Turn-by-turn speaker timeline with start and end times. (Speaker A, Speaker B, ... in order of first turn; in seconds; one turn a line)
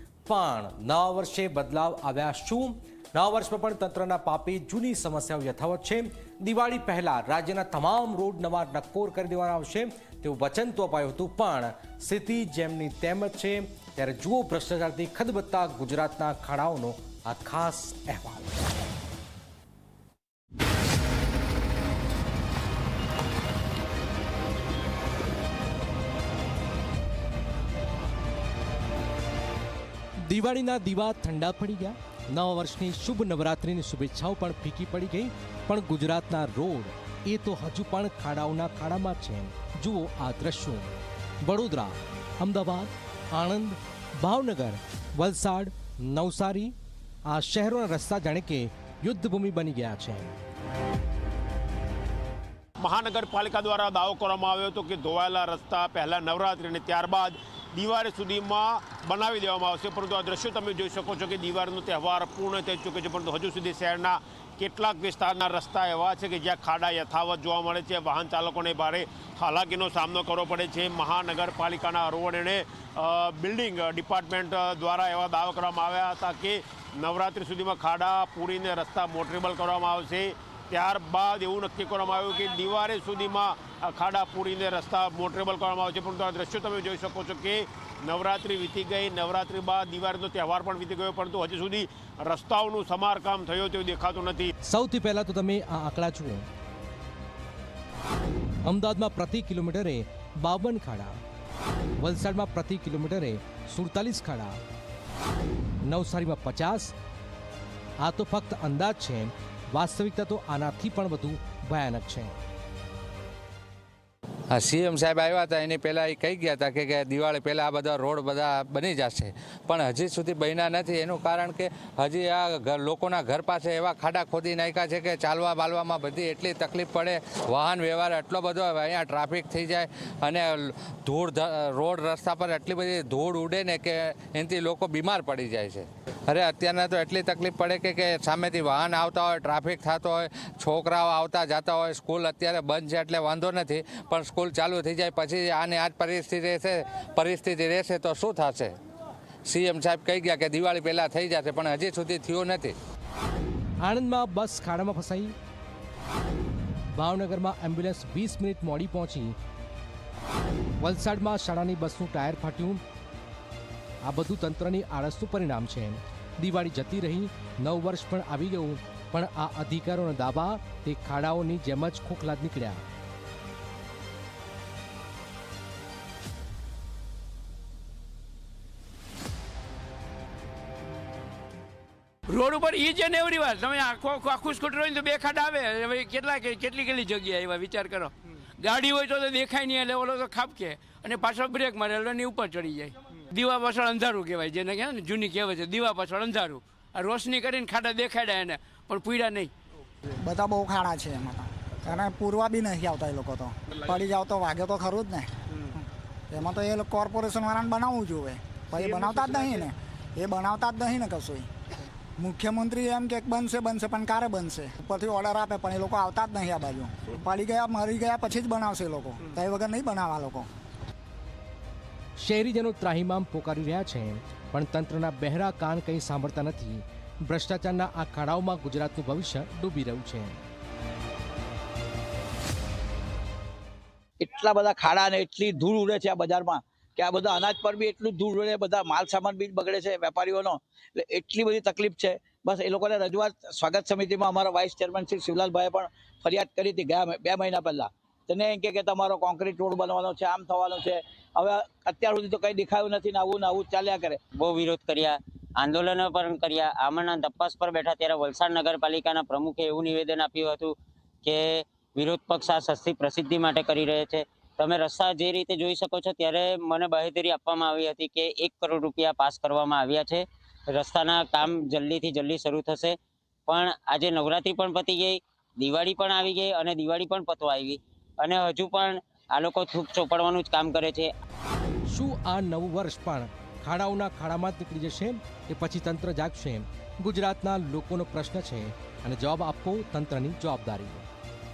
Speaker A: 0.3-18.5
Speaker A: 30.3-40.9
Speaker A: 41.4-46.7
Speaker A: 47.3-50.4
Speaker B: 52.8-94.5
Speaker A: 94.7-96.5
Speaker A: 98.6-101.2
Speaker A: 102.0-104.6
Speaker A: 105.9-106.9
Speaker A: 108.0-112.3
Speaker C: 114.5-148.8
Speaker C: 149.4-152.7
Speaker A: 153.8-155.3
Speaker A: 156.9-159.3
Speaker A: 160.8-162.8
Speaker A: 164.0-172.8
Speaker D: 182.3-199.5
Speaker E: 200.2-205.8
Speaker E: 206.3-211.5
Speaker E: 212.2-220.5
Speaker A: 222.2-230.4
Speaker F: 234.2-254.2
Speaker G: 254.4-281.1
Speaker A: 281.9-291.1